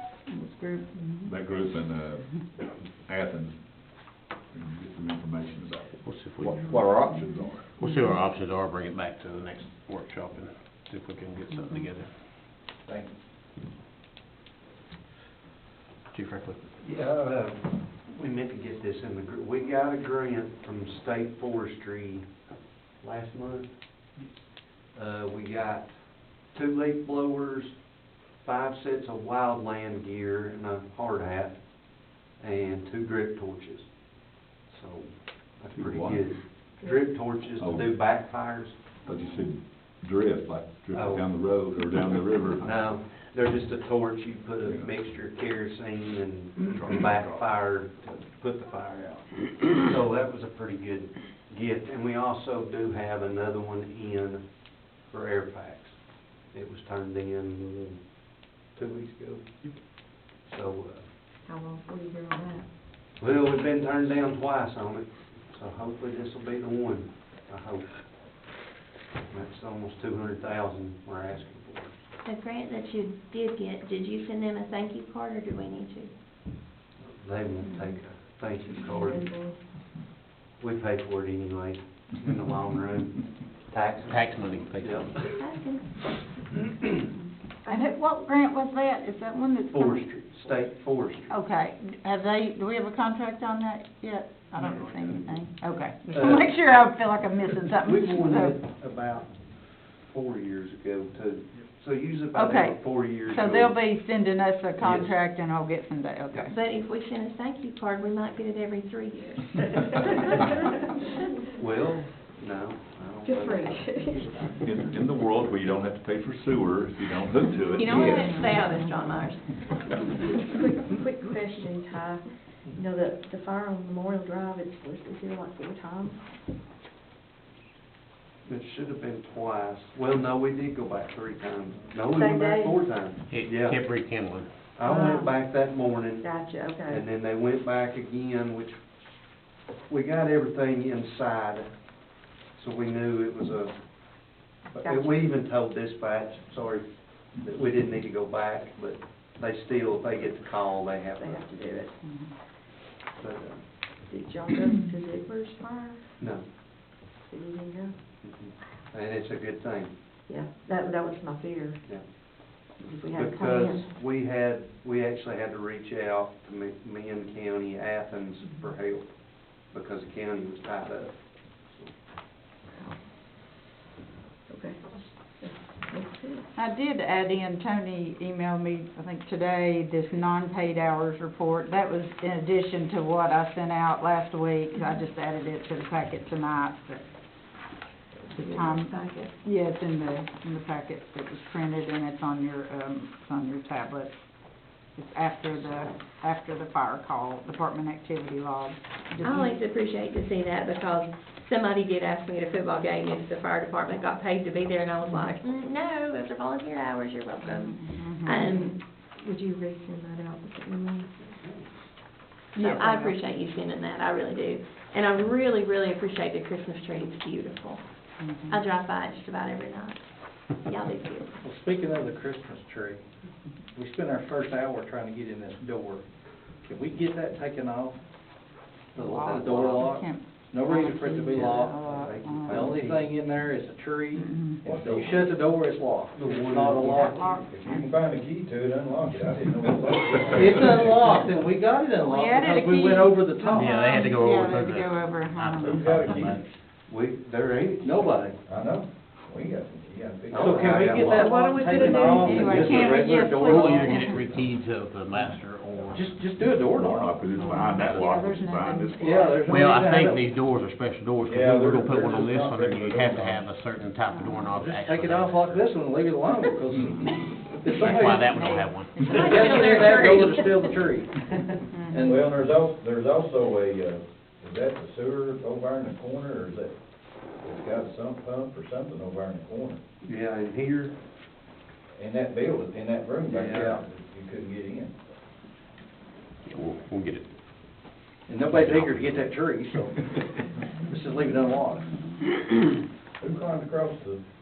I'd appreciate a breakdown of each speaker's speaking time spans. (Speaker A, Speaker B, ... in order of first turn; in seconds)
Speaker A: 0.2-1.4, 7.8-8.1, 87.7-90.2, 91.3-98.6, 102.3-106.5, 118.0-118.7, 152.0-152.3, 176.5-187.0, 188.3-194.2, 194.7-199.5, 207.4-208.5, 212.6-213.1, 218.2-218.6, 228.9-232.8, 234.1-234.6, 237.0-237.9, 242.0-246.2, 252.1-254.3, 257.3-259.6, 264.1-264.4, 267.9-270.5, 271.7-272.1
Speaker B: 1.2-2.3, 3.1-3.6, 4.9-5.5, 35.8-36.2, 37.6-37.9, 39.0-42.8, 46.7-47.5, 114.6-118.2, 256.7-259.1
Speaker C: 1.4-2.1, 3.0-3.5, 4.5-5.8, 6.4-7.6, 12.8-13.1, 41.0-41.5, 234.6-235.2, 237.5-241.0, 245.6-246.4, 248.4-251.1, 255.7-256.0, 261.2-263.5, 271.9-276.8, 277.3-279.8, 281.9-284.9, 293.2-294.2
Speaker D: 6.0-12.1, 16.1-16.6, 84.0-85.1, 133.3-134.5, 243.4-246.4, 252.7-256.2, 259.1-265.8, 267.6-269.1, 286.4-287.2, 288.4-289.3
Speaker E: 16.8-22.5, 23.0-24.3, 24.9-27.9, 28.4-39.0, 40.9-41.3, 42.6-61.1, 63.2-68.5, 69.3-71.9, 77.0-80.0, 80.6-85.2, 89.7-91.3, 96.1-96.9, 97.6-103.8, 104.8-105.2, 111.6-114.6, 128.4-133.8, 134.8-138.8, 139.9-142.0, 142.5-151.8, 153.2-153.9, 156.2-156.7, 158.2-159.9, 161.8-172.0, 211.2-211.8, 228.9-229.6, 231.3-233.1, 236.1-237.1, 246.9-248.3, 250.3-252.9, 280.0-281.0, 283.3-283.8
Speaker F: 36.8-37.1, 61.4-62.7, 78.9-79.6, 113.2-114.5, 120.3-126.2, 132.1-132.8, 134.8-135.4, 136.2-137.1, 144.8-145.3, 151.1-151.9, 154.0-156.0, 157.1-157.9, 160.2-161.8, 162.7-163.9, 172.7-173.0, 174.5-176.4, 208.5-211.1, 251.3-252.2
Speaker G: 72.2-76.1, 85.2-86.0, 106.5-110.1, 117.7-120.0, 188.5-189.2, 199.2-208.7, 212.5-221.3, 269.4-270.1
Speaker H: 221.4-223.0, 223.7-226.0, 226.6-228.0, 229.2-231.8, 232.4-237.4, 240.2-243.7, 247.8-248.4, 250.4-254.2, 255.9-257.2, 259.0-260.2, 264.5-271.6, 288.3-291.9